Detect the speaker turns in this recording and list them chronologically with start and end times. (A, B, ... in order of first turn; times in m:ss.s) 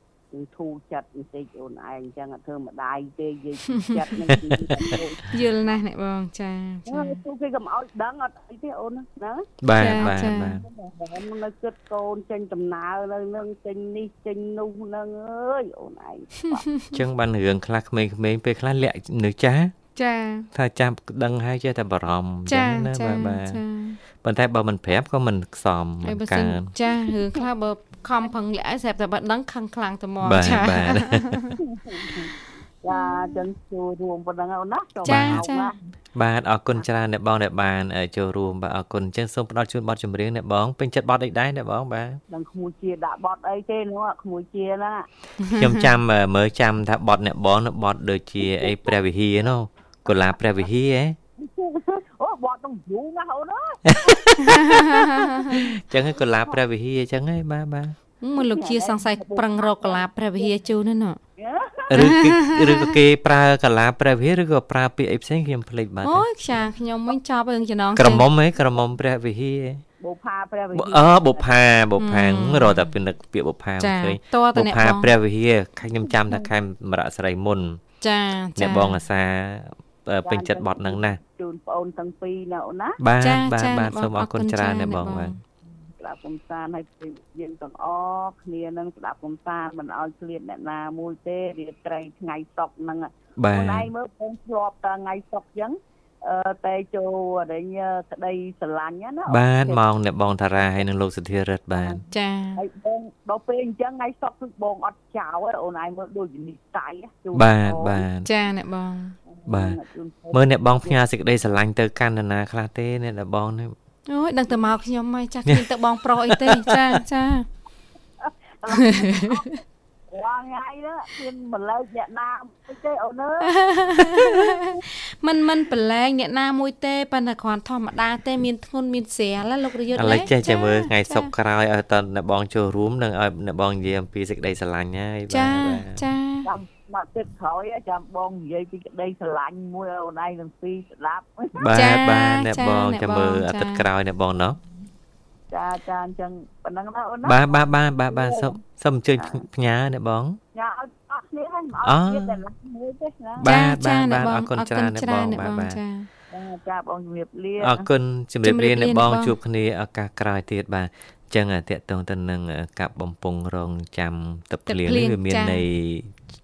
0:00.3-0:05.8 A
0:05.3-0:07.2 B
0:06.9-0:16.6 A
0:09.6-0:10.6 C
0:09.8-0:10.6 B
0:16.5-0:16.9 B
0:16.9-0:19.7 C
0:20.0-0:20.5 B
0:20.5-0:23.6 C
0:22.5-0:24.0 B
0:24.2-0:26.7 C
0:26.0-0:31.6 B
0:30.2-0:31.4 C
0:31.9-0:32.3 A
0:32.8-0:35.8 A
0:32.9-0:33.4 B
0:35.0-0:35.4 C
0:35.0-0:35.7 B
0:36.2-0:42.2 C
0:42.3-0:45.1 A
0:45.4-0:45.9 B
0:45.6-0:51.2 C
0:48.5-0:48.9 A
0:51.4-0:54.2 A
0:53.9-0:55.0 C
0:54.4-0:55.6 B
0:55.6-0:58.0 C
0:58.2-1:01.2 B
0:58.4-1:00.6 A
1:01.4-1:02.2 A
1:01.9-1:06.3 C
1:01.9-1:03.0 B
1:06.0-1:08.3 B
1:08.0-1:09.8 C
1:10.0-1:11.6 A
1:10.8-1:17.8 C
1:12.0-1:12.9 B
1:13.8-1:15.1 B
1:18.0-1:19.0 B
1:18.6-1:21.2 C
1:20.2-1:23.0 A
1:23.0-1:25.3 C
1:23.2-1:25.4 B
1:26.0-1:39.8 A
1:33.4-1:33.9 C
1:39.3-1:42.0 C
1:41.7-1:42.0 A
1:42.1-1:42.6 B
1:42.6-1:48.1 A
1:47.3-1:48.3 C
1:48.3-1:49.2 B
1:49.3-1:51.0 A
1:49.5-1:49.8 C
1:50.3-1:53.8 C
1:54.1-1:57.5 B
1:56.3-1:57.0 C
1:58.2-1:59.6 A
1:58.8-1:59.4 B
2:00.1-2:03.5 A
2:03.4-2:11.3 B
2:10.0-2:16.0 C
2:15.3-2:16.5 B
2:16.4-2:21.7 A
2:21.6-2:24.6 C
2:21.7-2:23.9 B
2:25.5-2:28.6 A
2:27.2-2:30.4 C
2:29.2-2:29.4 A
2:30.6-2:33.5 A
2:31.8-2:32.4 C
2:33.4-2:35.8 C
2:33.4-2:36.1 B
2:36.3-2:37.9 A
2:37.6-2:46.1 C
2:38.4-2:39.4 B
2:44.7-2:45.6 B